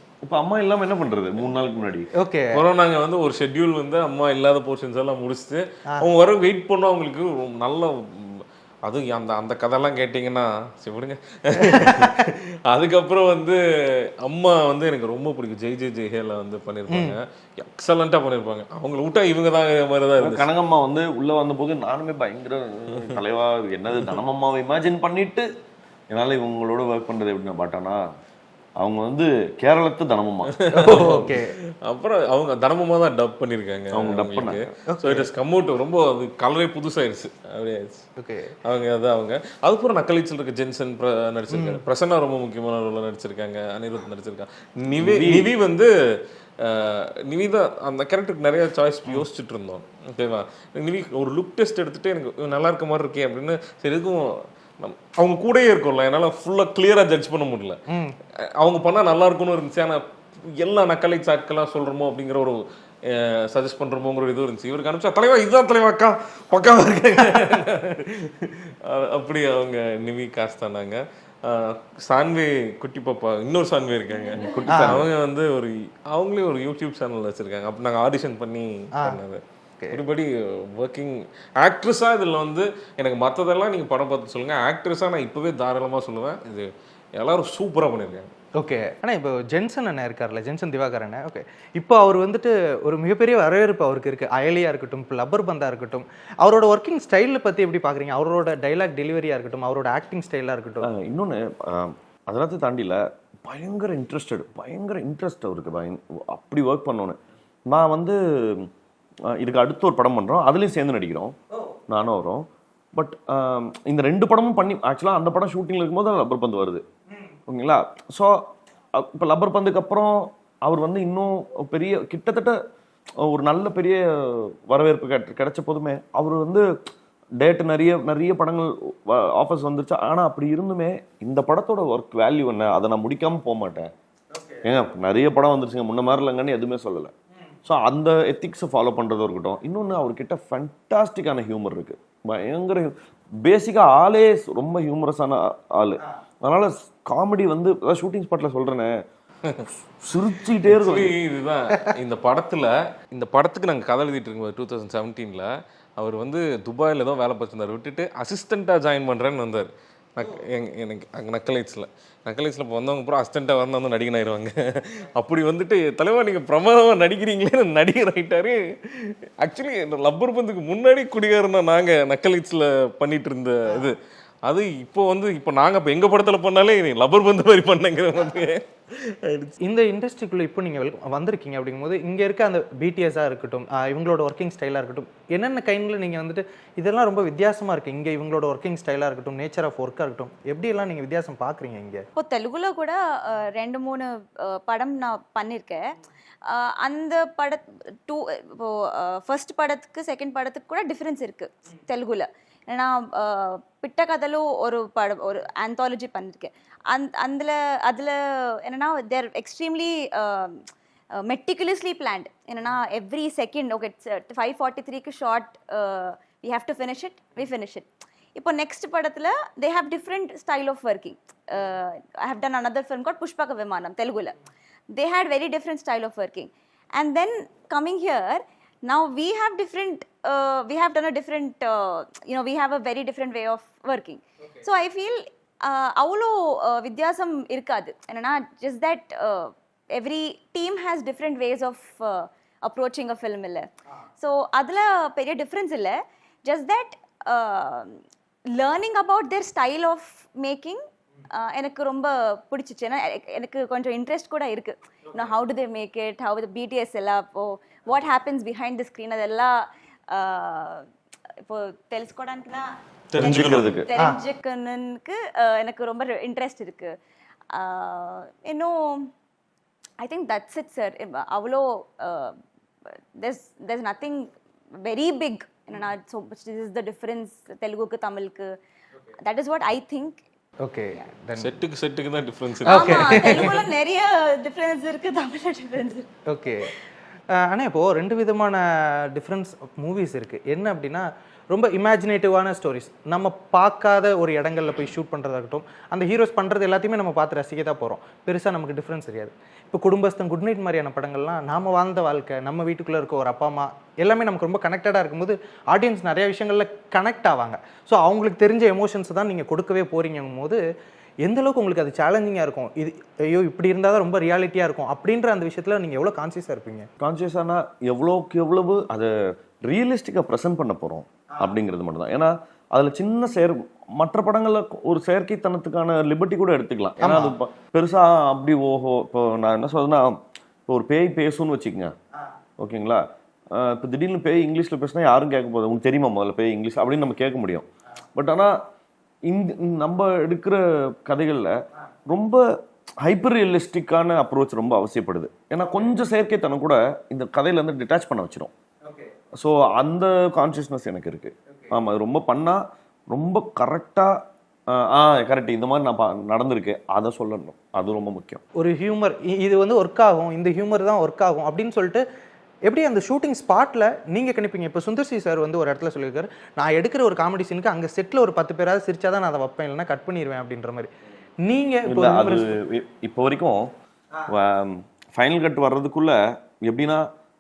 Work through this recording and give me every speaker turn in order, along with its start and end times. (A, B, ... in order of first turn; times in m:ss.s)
0:00.2-0:02.1 A
0:02.2-0:02.6 B
0:02.5-0:13.6 C
0:11.6-0:12.3 B
0:14.2-0:20.5 C
0:16.9-0:17.2 B
0:20.2-0:25.5 A
0:26.1-0:28.0 A
0:28.8-0:31.1 A
0:30.6-0:38.1 C
0:30.7-0:31.5 B
0:33.9-0:34.7 A
0:34.9-0:35.3 B
0:38.2-0:38.5 B
0:38.6-0:45.9 C
0:41.5-0:41.8 B
0:45.0-0:45.5 A
0:46.6-0:57.8 C
0:57.9-0:58.2 B
0:58.6-1:28.3 C
1:14.5-1:15.1 A
1:14.7-1:15.0 B
1:28.6-1:40.9 B
1:40.8-1:48.7 A
1:49.3-1:51.4 A
1:51.9-1:56.8 A
1:57.5-2:02.6 A
2:03.2-2:06.7 A
2:07.4-2:13.9 A
2:14.6-2:17.1 A
2:17.6-2:28.9 A
2:30.0-2:31.1 A
2:30.7-2:59.6 C
2:59.6-3:12.0 B
3:12.2-3:15.9 D
3:16.4-3:44.4 D
3:44.9-4:08.0 D
4:08.5-4:20.9 D
4:21.4-4:27.0 D
4:23.1-4:23.8 C
4:23.2-4:23.9 A
4:27.5-4:29.1 D
4:30.0-4:32.4 D
4:33.2-4:38.6 D
4:39.2-4:40.2 D
4:40.6-4:41.6 B
4:41.4-4:43.6 C
4:42.7-4:43.6 B
4:42.7-4:46.1 D
4:46.3-4:46.7 B
4:47.4-5:10.6 B
5:11.2-5:16.9 B
5:17.0-5:31.9 A
5:27.0-5:27.3 B
5:32.6-5:38.6 A
5:39.2-5:41.6 A
5:42.1-5:42.4 A
5:43.0-5:48.5 A
5:49.4-5:54.2 A
5:54.7-5:58.4 A
5:58.6-6:02.0 B
6:02.6-6:10.9 B
6:11.4-6:12.5 B
6:11.9-6:13.7 A
6:14.3-6:17.1 A